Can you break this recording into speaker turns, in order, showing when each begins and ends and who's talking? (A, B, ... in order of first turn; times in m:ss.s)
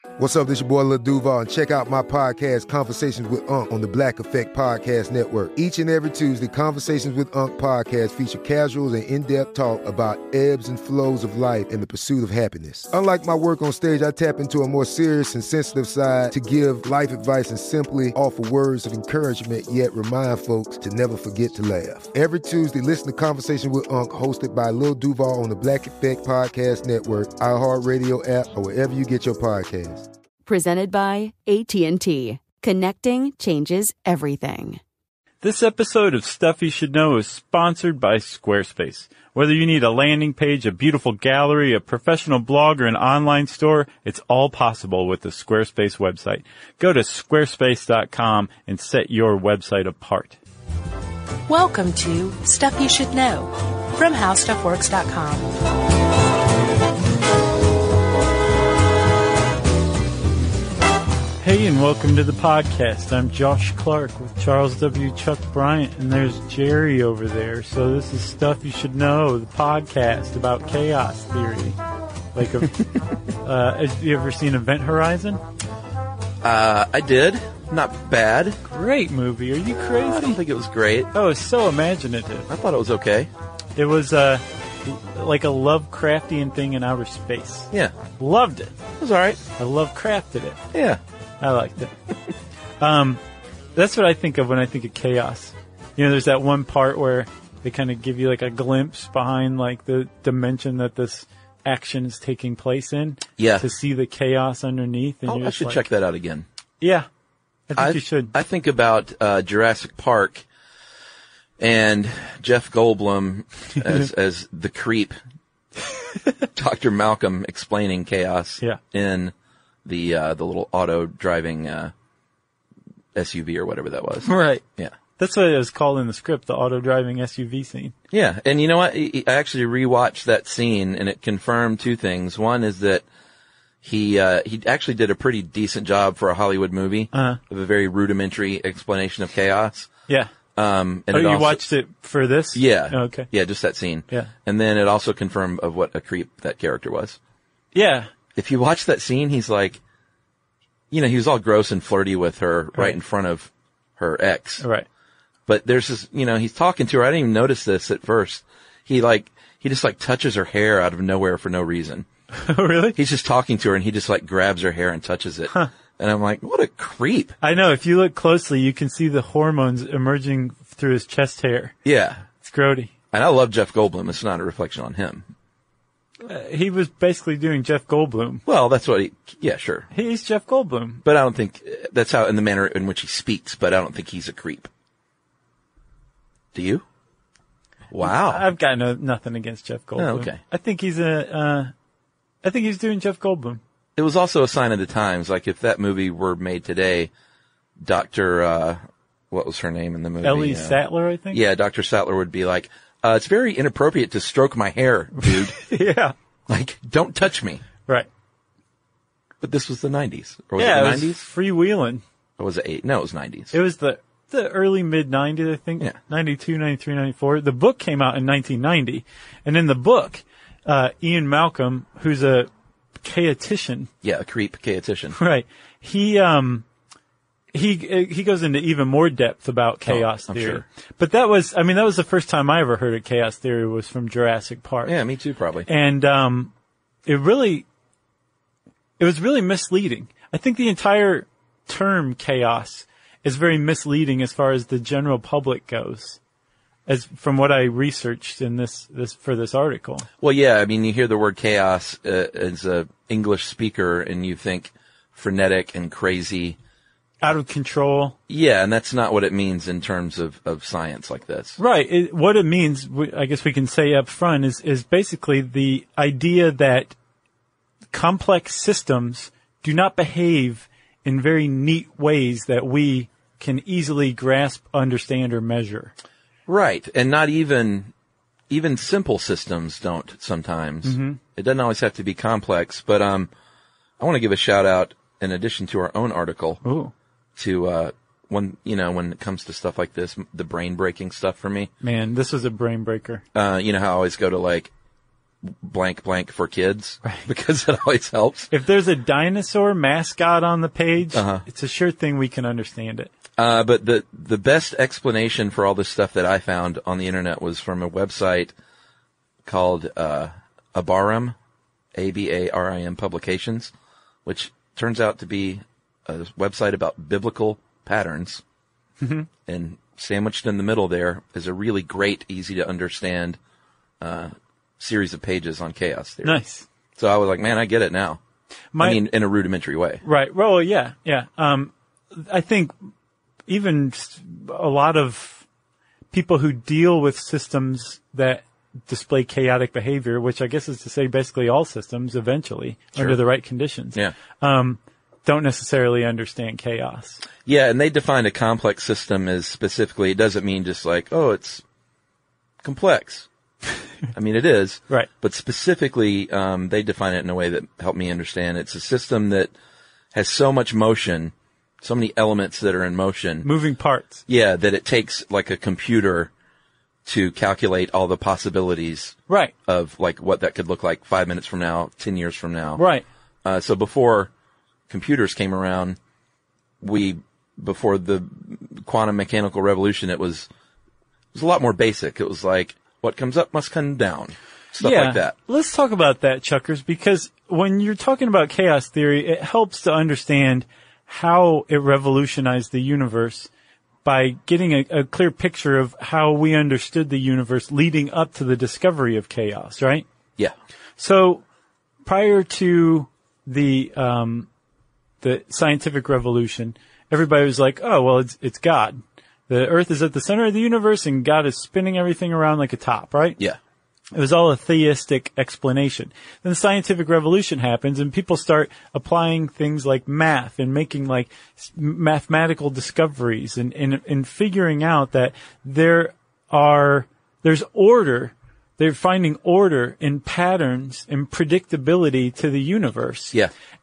0:00.2-0:30.0 A
0:30.4-0:34.8 B
0:35.4-0:50.4 C
0:51.5-0:55.5 D
1:01.4-1:11.8 C
1:12.3-1:12.8 C
1:13.4-1:15.4 C
1:16.4-1:18.6 E
1:18.6-1:20.4 C
1:20.0-1:21.1 E
1:21.1-1:22.5 C
1:22.5-1:23.3 E
1:23.8-1:28.7 C
1:29.0-1:29.4 E
1:29.6-1:30.6 C
1:30.7-1:31.0 E
1:31.4-1:31.9 C
1:32.8-1:33.2 C
1:33.7-1:45.8 C
1:43.4-1:43.6 E
1:45.3-1:46.4 E
1:46.8-1:47.1 C
1:47.7-1:48.3 C
1:47.8-1:50.4 E
1:51.6-1:55.2 E
1:56.5-1:59.3 E
1:59.8-2:01.9 E
2:03.1-2:04.9 E
2:04.2-2:04.6 C
2:05.2-2:07.9 C
2:08.1-2:13.0 E
2:13.8-2:19.9 E
2:17.1-2:17.4 C
2:20.6-2:21.6 E
2:21.1-2:23.3 C
2:22.5-2:27.2 E
2:27.7-2:28.1 C
2:28.4-2:29.8 E
2:30.9-2:34.6 E
2:34.6-2:34.8 C
2:35.5-2:42.0 E
2:42.3-2:43.0 C
2:43.0-2:47.4 E
2:47.4-2:51.7 C
2:51.8-2:52.2 E
2:52.4-2:52.9 C
2:53.1-2:55.2 E
2:56.2-2:58.4 C
2:58.4-2:59.9 E
2:59.9-3:01.0 C
3:01.0-3:04.7 E
3:06.5-3:06.8 E
3:07.9-3:08.4 E
3:08.0-3:11.7 C
3:10.0-3:10.4 E
3:12.4-3:13.6 C
3:14.0-3:17.1 E
3:17.8-3:20.8 E
3:20.2-3:21.4 C
3:21.3-3:25.6 E
3:25.2-3:26.1 C
3:26.5-3:27.6 E
3:29.4-3:31.2 E
3:30.6-3:32.0 C
3:32.4-3:33.5 E
3:33.5-3:42.5 C
3:43.0-3:43.9 C
3:44.0-3:45.2 E
3:45.1-3:46.6 C
3:47.5-3:54.9 C
3:49.8-3:50.6 E
3:54.9-3:55.7 E
3:55.7-3:56.5 C
3:57.0-3:57.6 C
3:59.0-4:06.2 C
4:06.9-4:10.1 C
4:10.2-4:16.6 E
4:17.2-4:18.2 C
4:18.3-4:21.6 E
4:21.6-4:26.9 C
4:27.9-4:35.9 C
4:36.5-4:37.9 E
4:38.5-4:43.3 E
4:40.8-4:41.2 C
4:44.0-4:46.6 E
4:46.6-4:46.9 C
4:47.4-4:51.7 E
4:51.8-4:53.2 C
4:53.3-4:54.7 E
4:55.4-4:58.5 E
4:58.5-5:03.1 C
5:01.1-5:01.4 E
5:03.4-5:08.5 E
5:09.4-5:11.3 E
5:11.9-5:13.7 E
5:14.2-5:18.4 E
5:19.0-5:19.3 C
5:19.5-5:23.4 E
5:24.0-5:26.4 E
5:26.2-5:26.6 C
5:27.0-5:28.2 E
5:28.7-5:29.0 C
5:28.8-5:30.0 E
5:30.0-5:32.7 C
5:33.5-5:35.4 C
5:36.1-5:47.2 C
5:47.4-5:51.6 E
5:52.6-5:53.3 E
5:54.1-5:59.5 E
6:00.1-6:03.5 E
6:03.4-6:04.2 C
6:04.3-6:06.3 E
6:07.0-6:12.8 E
6:12.8-6:13.0 C
6:13.4-6:14.3 E
6:14.9-6:16.0 E
6:16.8-6:20.5 E
6:21.3-6:25.3 E
6:24.8-6:33.5 C
6:34.0-6:40.0 C
6:41.0-6:41.4 C
6:42.0-6:44.5 C
6:45.2-6:53.4 C
6:54.1-7:13.4 C